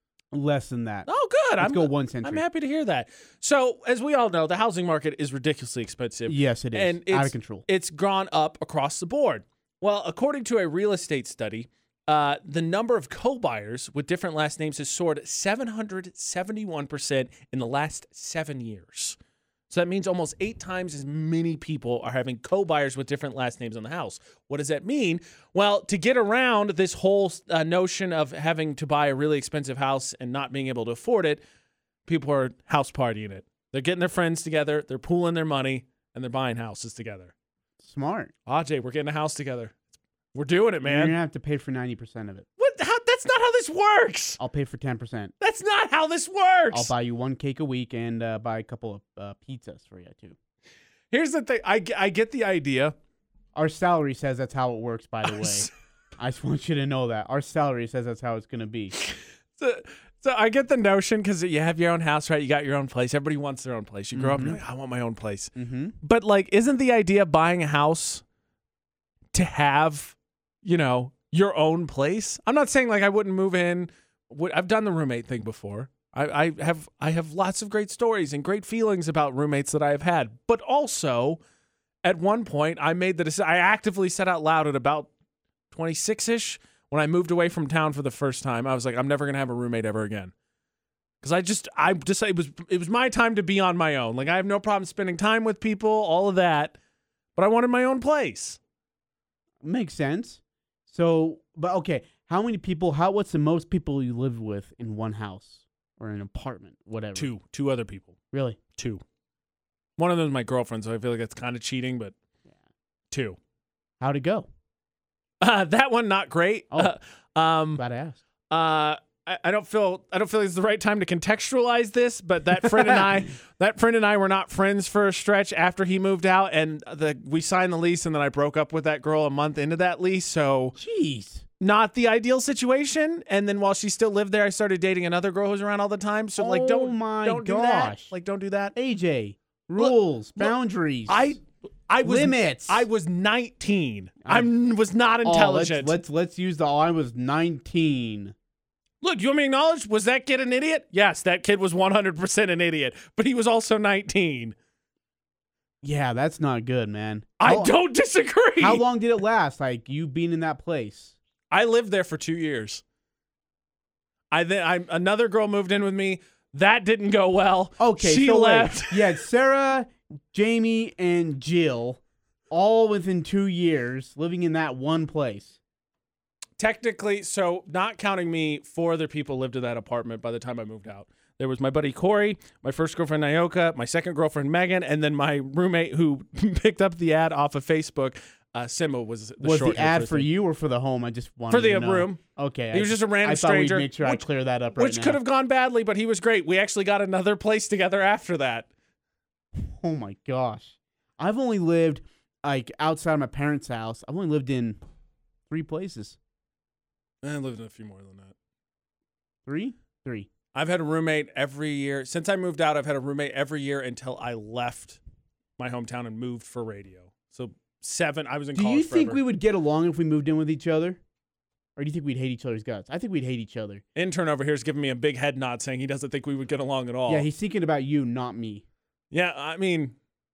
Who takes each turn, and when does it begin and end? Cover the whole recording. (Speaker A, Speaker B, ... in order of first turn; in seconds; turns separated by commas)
Speaker A: 0.3-1.1, Speaker B: 1.1-19.2, Speaker A: 1.6-2.4, Speaker A: 6.3-7.6, Speaker B: 19.7-31.4, Speaker B: 32.0-37.3, Speaker A: 37.8-38.3, Speaker B: 38.5-39.8, Speaker B: 40.3-41.2, Speaker A: 40.8-42.5, Speaker B: 42.6-44.4, Speaker A: 44.4-45.3, Speaker B: 45.4-46.9, Speaker A: 46.7-50.4, Speaker B: 51.1-52.9, Speaker A: 53.5-58.9, Speaker B: 55.2-55.7, Speaker B: 58.9-68.2, Speaker A: 64.1-64.6, Speaker A: 65.5-66.0, Speaker B: 69.3-81.4, Speaker B: 82.0-85.1, Speaker B: 85.7-90.3, Speaker B: 91.2-96.8, Speaker B: 97.3-98.6, Speaker A: 99.6-107.3, Speaker B: 107.2-108.1, Speaker A: 108.3-108.6, Speaker B: 108.7-109.0, Speaker B: 110.0-112.1, Speaker B: 113.1-113.4, Speaker A: 114.0-114.5, Speaker B: 115.4-117.8, Speaker A: 117.8-118.2, Speaker B: 118.5-130.8, Speaker A: 122.6-123.1, Speaker A: 130.8-131.4, Speaker B: 131.6-138.7, Speaker A: 136.4-138.1, Speaker A: 138.7-141.4, Speaker B: 139.8-140.5, Speaker B: 141.1-146.0, Speaker A: 142.0-142.9, Speaker A: 144.2-144.5, Speaker A: 145.2-148.3, Speaker B: 149.0-154.6, Speaker A: 155.8-157.7, Speaker B: 157.4-158.8, Speaker A: 158.6-161.1, Speaker B: 161.5-162.8, Speaker B: 164.3-169.0, Speaker A: 167.8-172.0, Speaker A: 172.5-175.6, Speaker B: 176.6-190.3, Speaker A: 189.4-195.2, Speaker B: 191.5-192.2, Speaker B: 192.7-198.7, Speaker A: 199.6-204.8, Speaker A: 205.5-206.2, Speaker B: 207.2-208.3, Speaker A: 209.4-210.3, Speaker B: 210.5-215.0, Speaker B: 215.6-219.2, Speaker A: 218.5-221.0, Speaker A: 221.8-223.8, Speaker B: 223.9-227.3, Speaker A: 227.1-228.6, Speaker B: 229.1-229.9